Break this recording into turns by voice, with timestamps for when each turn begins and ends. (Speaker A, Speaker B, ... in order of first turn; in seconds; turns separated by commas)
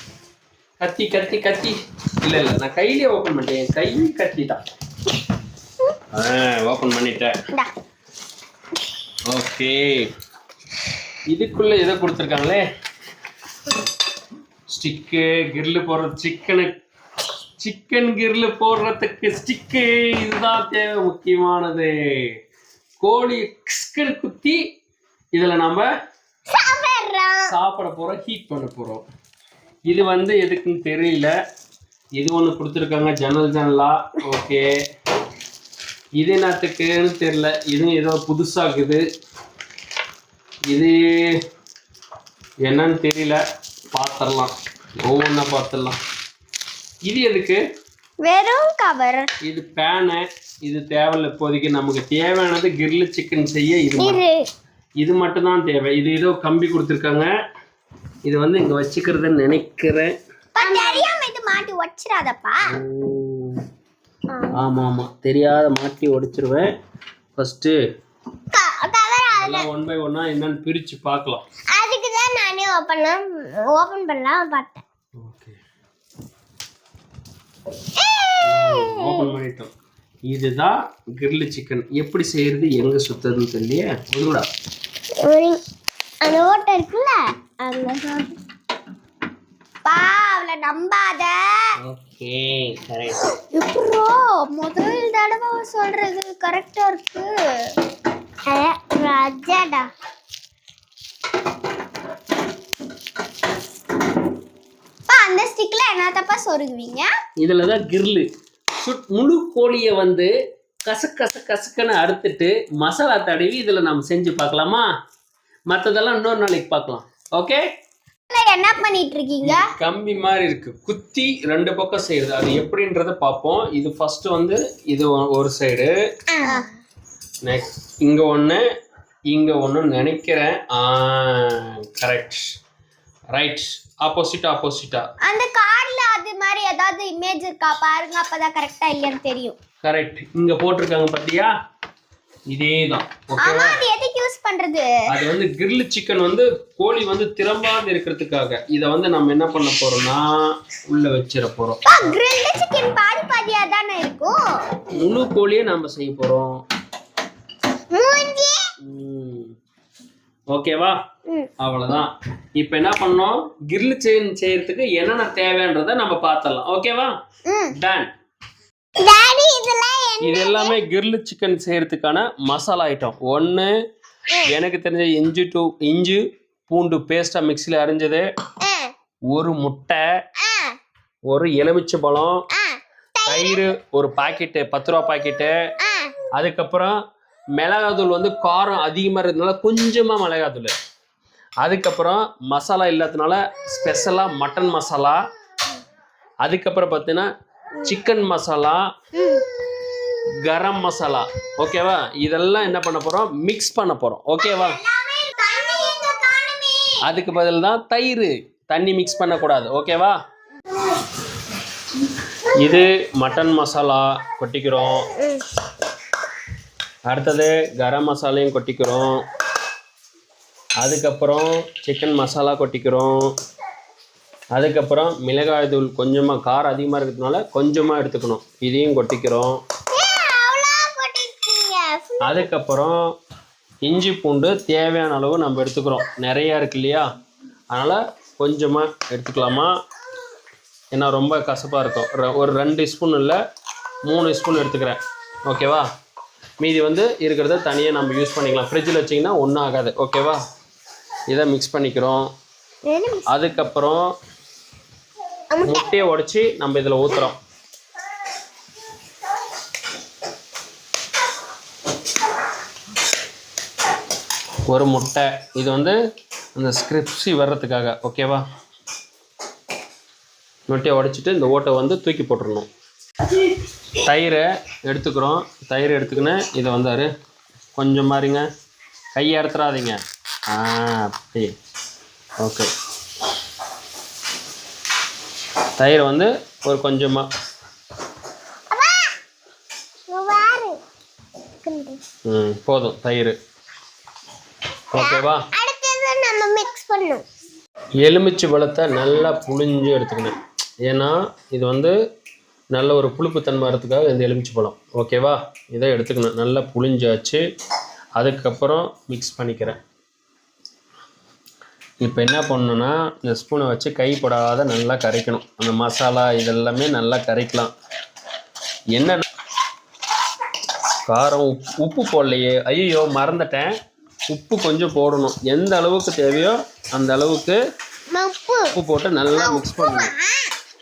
Speaker A: 0.8-4.6, Speaker A: 6.1-7.3, Speaker A: 9.3-10.1, Speaker A: 11.3-12.6, Speaker A: 14.7-16.8, Speaker A: 17.6-22.3, Speaker A: 23.0-24.6, Speaker A: 25.3-25.9, Speaker B: 26.5-27.5, Speaker A: 27.4-29.0, Speaker A: 29.9-31.3, Speaker A: 32.2-34.7, Speaker A: 36.2-39.0, Speaker A: 40.7-41.4, Speaker A: 42.6-43.4, Speaker A: 43.9-44.5, Speaker A: 45.0-46.0, Speaker A: 47.0-47.6, Speaker C: 48.2-49.3, Speaker A: 49.4-54.2, Speaker B: 54.0-54.3, Speaker A: 55.0-57.3, Speaker A: 58.2-60.1, Speaker C: 60.5-62.7, Speaker B: 60.6-61.2, Speaker A: 62.6-63.6, Speaker A: 64.5-66.7, Speaker A: 67.3-67.7, Speaker B: 68.5-69.7, Speaker A: 69.3-71.4, Speaker B: 71.7-74.8, Speaker A: 75.2-75.6, Speaker B: 78.0-79.3, Speaker A: 78.4-79.7, Speaker A: 80.3-84.5, Speaker B: 85.2-85.6, Speaker B: 86.2-88.3, Speaker C: 89.8-91.6, Speaker A: 91.8-93.2, Speaker C: 93.5-97.3, Speaker B: 98.5-99.9, Speaker C: 105.1-107.1, Speaker A: 107.4-108.2, Speaker A: 108.8-110.3, Speaker A: 110.8-114.9, Speaker A: 115.7-117.6, Speaker C: 118.3-119.7, Speaker A: 119.4-125.9, Speaker B: 126.3-126.7, Speaker A: 127.4-128.6, Speaker A: 129.3-132.4, Speaker A: 133.3-135.1, Speaker C: 135.2-139.6, Speaker A: 139.8-141.5, Speaker A: 142.5-143.8, Speaker C: 143.4-144.9, Speaker A: 145.1-152.1, Speaker C: 151.8-154.3, Speaker A: 154.9-156.6, Speaker B: 157.9-158.6, Speaker A: 158.8-159.5, Speaker A: 160.5-160.9, Speaker A: 161.6-167.1, Speaker A: 167.7-168.1, Speaker B: 169.0-170.8, Speaker A: 170.2-173.7, Speaker A: 174.4-178.3, Speaker B: 178.6-178.9, Speaker A: 179.3-180.0, Speaker B: 180.4-180.8, Speaker A: 181.3-182.4, Speaker B: 182.5-183.6, Speaker A: 183.2-185.5, Speaker B: 185.8-186.1, Speaker A: 186.3-186.9, Speaker A: 187.6-190.7, Speaker A: 191.6-195.2, Speaker A: 196.4-197.3, Speaker A: 197.8-198.8, Speaker B: 199.2-199.4, Speaker A: 200.4-204.8, Speaker B: 204.6-206.9, Speaker A: 207.0-210.1, Speaker A: 212.5-215.1, Speaker B: 215.2-215.4, Speaker A: 217.1-219.2, Speaker A: 220.8-223.2, Speaker A: 224.5-229.6, Speaker B: 229.9-232.4, Speaker A: 232.2-233.0, Speaker A: 233.8-237.1, Speaker A: 237.7-239.7, Speaker A: 240.9-243.4, Speaker A: 244.1-245.8, Speaker A: 246.6-250.4, Speaker A: 251.3-252.3, Speaker B: 252.9-253.4, Speaker A: 253.3-254.1, Speaker B: 255.5-255.9, Speaker A: 255.6-257.4, Speaker A: 264.6-266.0, Speaker A: 266.6-268.4, Speaker A: 270.7-272.7, Speaker A: 274.0-277.1, Speaker A: 277.8-278.4, Speaker A: 279.1-280.0, Speaker A: 280.5-281.6, Speaker A: 282.4-282.7, Speaker A: 285.8-287.3, Speaker B: 288.7-289.0, Speaker B: 290.1-290.8, Speaker B: 291.6-292.0, Speaker A: 292.3-293.4, Speaker A: 294.9-295.4, Speaker B: 294.9-297.2, Speaker A: 298.0-301.9, Speaker A: 302.7-307.4, Speaker A: 308.2-309.8, Speaker A: 312.0-317.7, Speaker A: 318.9-319.2, Speaker A: 321.1-323.7, Speaker A: 324.3-327.6, Speaker B: 328.1-328.7, Speaker A: 328.7-330.1, Speaker B: 329.3-330.5